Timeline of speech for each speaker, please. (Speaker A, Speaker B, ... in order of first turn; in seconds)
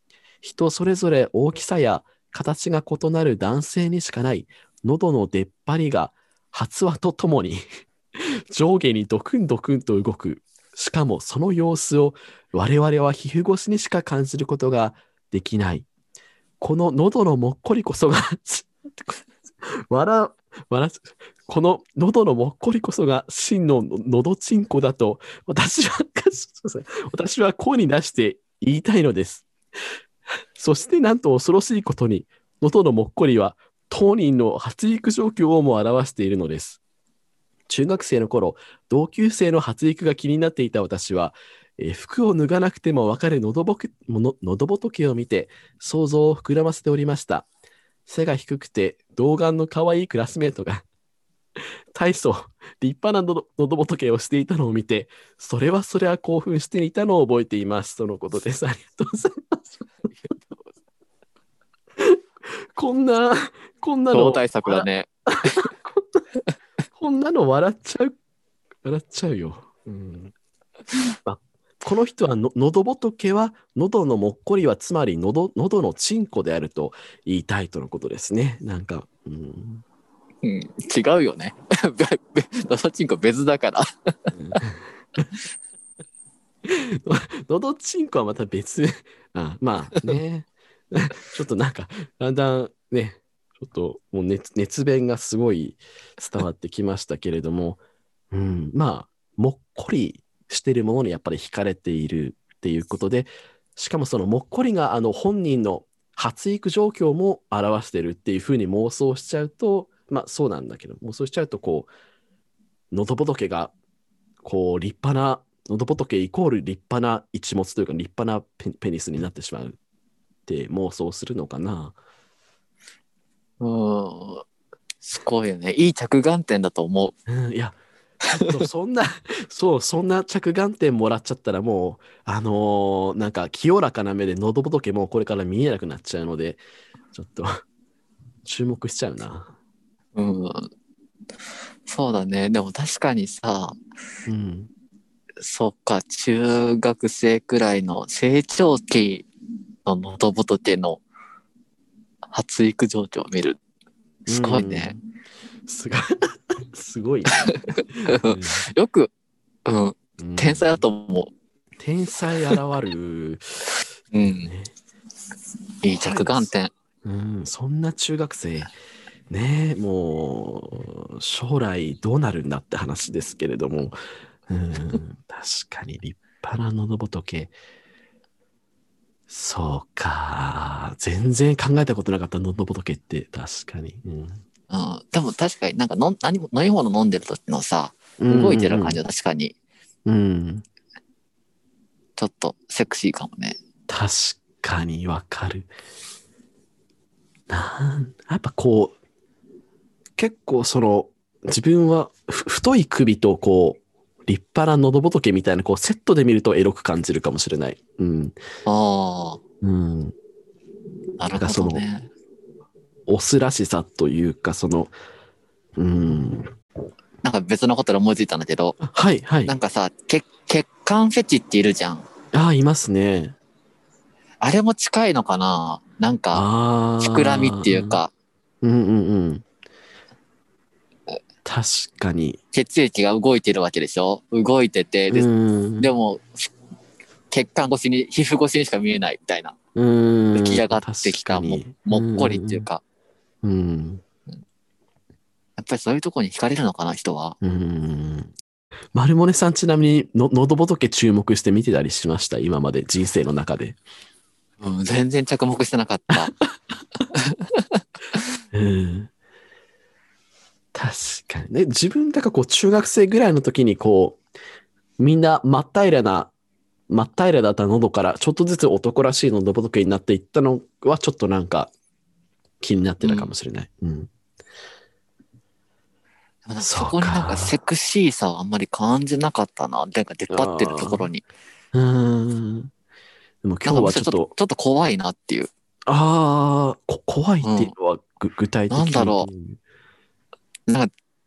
Speaker A: 0.4-7.6, 8.2-15.9, 16.6-29.5, 30.6-36.8, 37.7-47.5, 48.1-50.9, 51.9-59.6, 62.0-66.2, 66.9-68.1, 68.8-70.3, 71.2-79.8, 84.3-85.2, 86.7-97.8, 98.3-111.9, 112.9-113.7, 114.4-119.8, 120.5-122.0, 127.3-136.6, 137.1-137.6, 138.4-139.6, 144.3-144.7, 154.3-155.0, 155.7-158.7, 160.2-160.8, 161.8-164.7, 165.9-166.5, 167.0-168.7, 169.3-177.5, 179.3-184.4, 188.2-189.0, 190.1-190.7, 193.9-195.7, 197.5-199.0, 200.2-208.4, 209.6-210.2, 211.3-211.8, 213.1-214.9, 215.8-216.5, 218.8-219.6, 222.3-223.4, 226.3-228.0, 228.6-229.4, 231.4-232.4, 235.1-235.9, 239.8-242.7, 243.4-244.0, 247.4-248.3, 248.9-253.8, 258.5-259.1, 260.7-264.2, 265.0-266.3, 266.9-271.7, 272.6-274.1, 276.6-277.6, 280.3-281.1, 281.7-282.7, 283.4-284.3, 285.9-289.6
Speaker B: 64.1-65.7, 80.4-84.6, 123.6-124.5, 125.0-127.2, 140.2-140.7, 141.9-143.8, 145.4-149.3, 149.8-151.0, 152.3-153.6, 154.4-155.0, 157.3-159.1, 159.7-161.3, 164.1-164.5, 165.8-166.7, 184.7-189.6, 192.2-193.6, 208.7-209.4, 211.2-212.1, 217.2-218.8, 219.4-222.1, 224.4-226.5, 227.0-228.1, 232.5-235.3, 235.8-236.5, 237.3-239.6, 240.3-242.8, 245.6-247.4, 254.6-256.3, 257.1-257.6, 273.0-273.3, 276.5-281.2, 283.6-285.5, 287.4-287.7, 288.7-289.3